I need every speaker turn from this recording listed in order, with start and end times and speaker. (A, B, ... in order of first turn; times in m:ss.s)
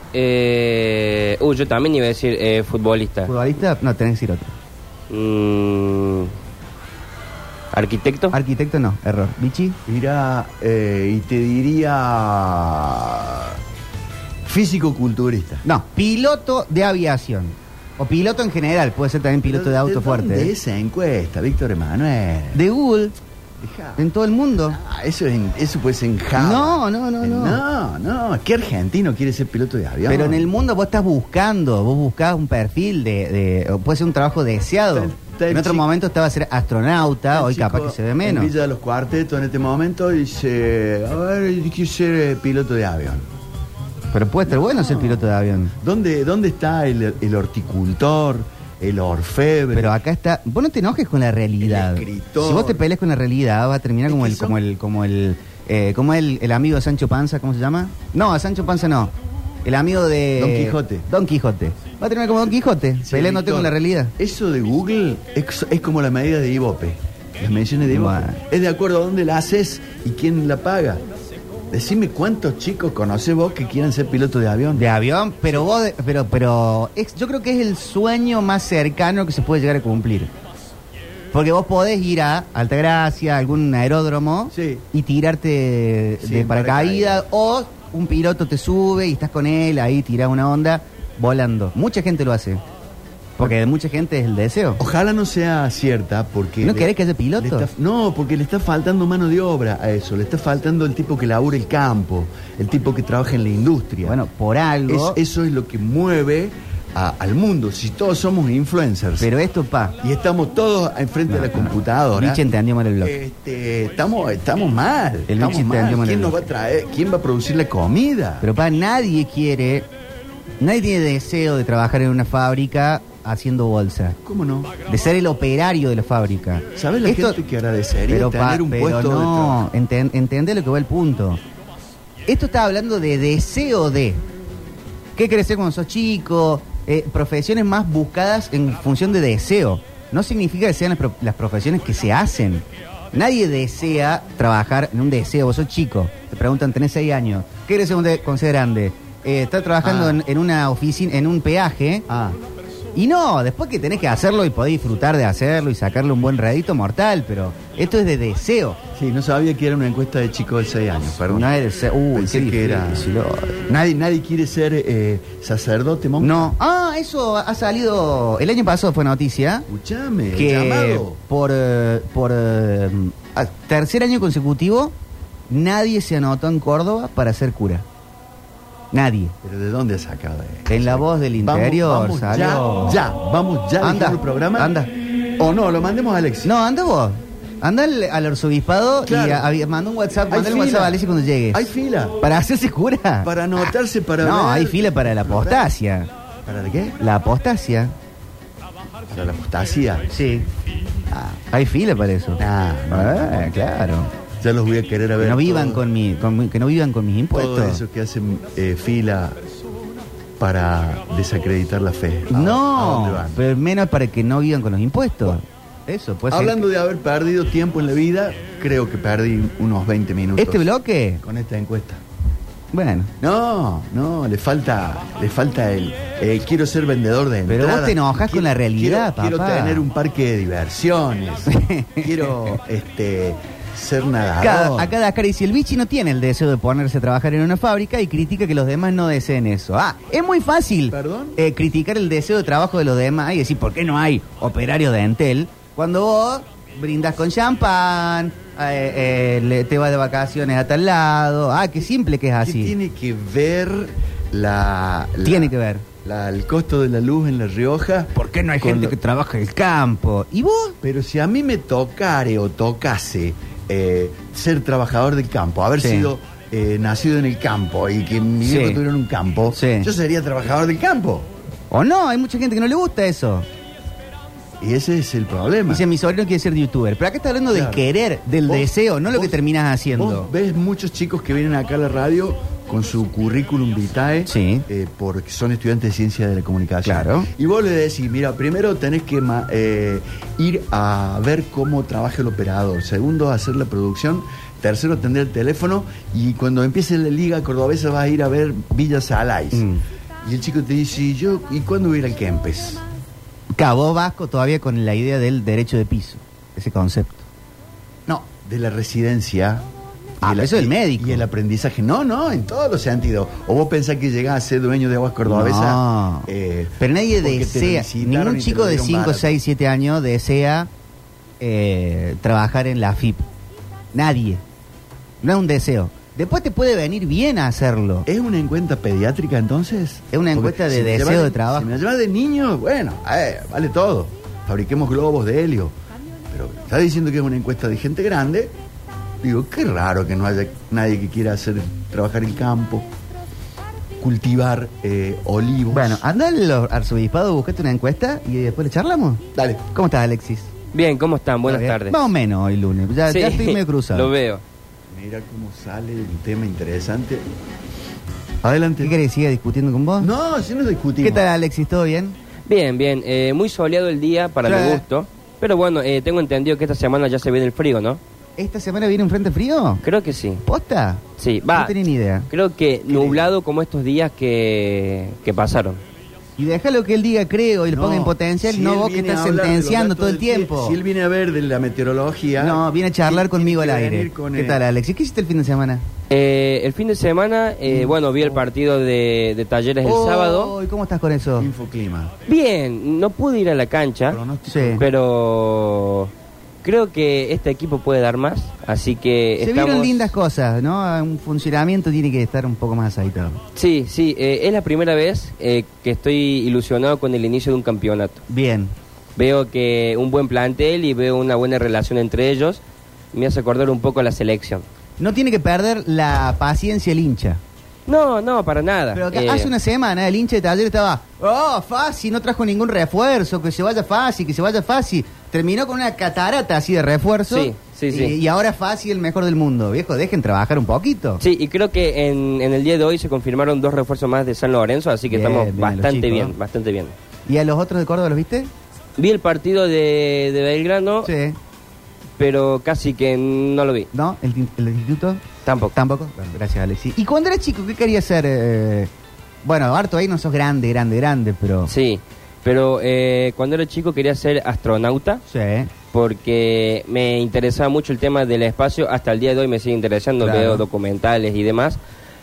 0:00.1-0:03.3 A
0:03.2-0:04.5 B
0:05.1-0:06.3 A
0:07.7-0:08.4 A
0:08.3-0:09.8 B
0:09.9-0:13.6 C
0:14.4-0:15.6 C
0:15.6-0:20.5 B
0:19.4-0:22.6 C
0:22.5-0:23.2 B
0:23.6-0:24.0 C
0:24.0-0:24.8 B
0:24.6-0:30.5 C
0:26.4-0:27.6 B
0:30.1-0:38.5 B
0:34.9-0:35.8 C
0:37.3-0:43.3 C
0:44.1-0:45.8 B
0:44.5-0:45.3 C
0:45.8-0:49.9 C
0:49.7-0:59.1 B
0:51.6-0:52.8 C
0:54.1-0:54.6 C
0:59.6-1:04.1 B
1:00.4-1:01.1 C
1:03.0-1:11.0 C
1:07.9-1:08.4 B
1:11.7-1:14.8 C
1:14.8-1:20.3 B
1:21.3-1:32.6 B
1:24.5-1:24.9 C
1:26.2-1:27.2 C
1:33.4-1:34.8 B
1:34.8-1:44.2 C
1:36.6-1:37.7 B
1:44.0-1:45.2 B
1:44.9-1:49.3 C
1:49.2-1:50.0 B
1:50.0-1:52.4 C
1:51.3-1:53.2 B
1:53.0-1:58.5 C
1:55.3-1:56.5 B
1:58.4-1:59.9 B
2:00.6-2:04.2 B
2:04.2-2:04.8 C
2:04.9-2:07.4 B
2:06.8-2:09.6 C
2:08.1-2:11.4 B
2:12.3-2:14.2 B
2:15.2-2:32.0 B
2:29.8-2:30.2 C
2:32.1-2:32.4 C
2:33.0-2:38.8 B
2:39.0-2:41.5 C
2:41.3-2:43.6 B
2:42.2-2:43.1 C
2:43.7-2:46.5 C
2:46.2-2:49.7 B
2:49.7-2:51.2 C
2:50.3-2:54.9 B
2:55.5-2:57.8 B
2:58.9-2:59.4 B
2:59.4-3:04.7 C
3:00.7-3:03.0 B
3:03.8-3:04.9 B
3:05.4-3:06.5 C
3:06.4-3:11.7 B
3:09.1-3:09.4 C
3:10.3-3:11.0 C
3:11.5-3:12.2 C
3:12.2-3:16.1 B
3:13.2-3:15.7 C
3:16.5-3:17.0 C
3:17.0-3:17.9 B
3:19.1-3:20.1 C
3:20.1-3:20.5 B
3:21.1-3:21.4 C
3:21.5-3:24.1 B
3:22.4-3:23.6 C
3:24.4-3:25.8 C
3:25.2-3:27.8 B
3:27.3-3:29.4 C
3:30.4-3:33.4 C
3:32.3-3:36.7 B
3:36.3-3:40.7 C
3:40.4-3:41.2 B
3:41.2-3:42.0 C
3:42.7-3:43.1 B
3:43.2-3:54.9 C
3:47.5-3:49.9 B
3:51.5-3:52.6 B
3:54.4-4:12.8 B
4:00.9-4:01.4 C
4:12.4-4:19.0 C
4:15.2-4:15.9 B
4:18.1-4:20.8 B
4:20.8-4:31.3 C
4:25.8-4:26.1 B
4:28.4-4:28.8 B
4:29.5-4:29.9 B
4:31.7-4:33.5 B
4:34.6-4:35.8 C
4:35.7-4:40.3 B
4:37.5-4:37.9 C
4:38.5-4:39.4 C
4:40.0-4:59.7 C
4:44.3-4:44.7 B
4:46.8-4:47.3 B
4:59.5-4:59.8 B
5:00.2-5:02.8 C
5:03.6-5:07.2 B
5:08.1-5:09.7 C
5:10.2-5:19.4 C
5:10.2-5:11.2 B
5:15.3-5:20.7 B
5:21.4-5:23.3 B
5:23.9-5:24.4 B
5:25.2-5:28.1 B
5:28.1-5:35.8 C
5:30.1-5:31.7 B
5:36.3-5:38.6 C
5:39.2-5:42.9 C
5:44.0-5:46.0 C
5:45.7-5:50.5 B
5:49.4-5:49.7 C
5:50.7-5:52.1 A
5:51.4-5:54.1 B
5:53.0-5:54.4 A
5:54.9-5:57.3 C
5:58.4-5:59.0 C
5:58.8-6:00.1 B
6:00.0-6:01.3 C
6:01.0-6:02.2 B
6:02.5-6:08.0 A
6:04.4-6:04.8 B
6:08.4-6:09.8 B
6:09.8-6:10.4 A
6:10.4-6:12.3 B
6:11.2-6:11.8 A
6:12.3-6:15.8 A
6:13.0-6:13.2 C
6:16.4-6:20.8 B
6:17.7-6:24.6 C
6:22.4-6:25.8 B
6:26.1-6:30.5 A
6:27.7-6:28.4 B
6:29.8-6:31.5 B
6:31.4-6:32.1 C
6:32.3-6:34.2 A
6:34.1-6:34.9 C
6:34.5-6:34.8 B
6:34.8-6:36.1 A
6:36.6-6:40.1 A
6:39.4-6:43.4 B
6:43.6-6:48.2 A
6:48.3-6:48.7 B
6:49.2-6:54.6 A
6:55.0-6:57.4 B
6:57.9-6:59.5 A
6:58.9-7:11.2 B
7:07.3-7:08.2 A
7:11.2-7:16.9 A
7:15.1-7:16.4 B
7:17.3-7:18.5 B
7:19.0-7:21.1 A
7:21.0-7:21.4 B
7:22.2-7:23.9 A
7:23.9-7:25.2 B
7:25.4-7:25.8 A
7:25.7-7:28.9 B
7:29.4-7:31.7 B
7:31.7-7:35.2 A
7:35.3-7:35.7 B
7:35.9-7:41.8 A
7:40.2-7:40.7 B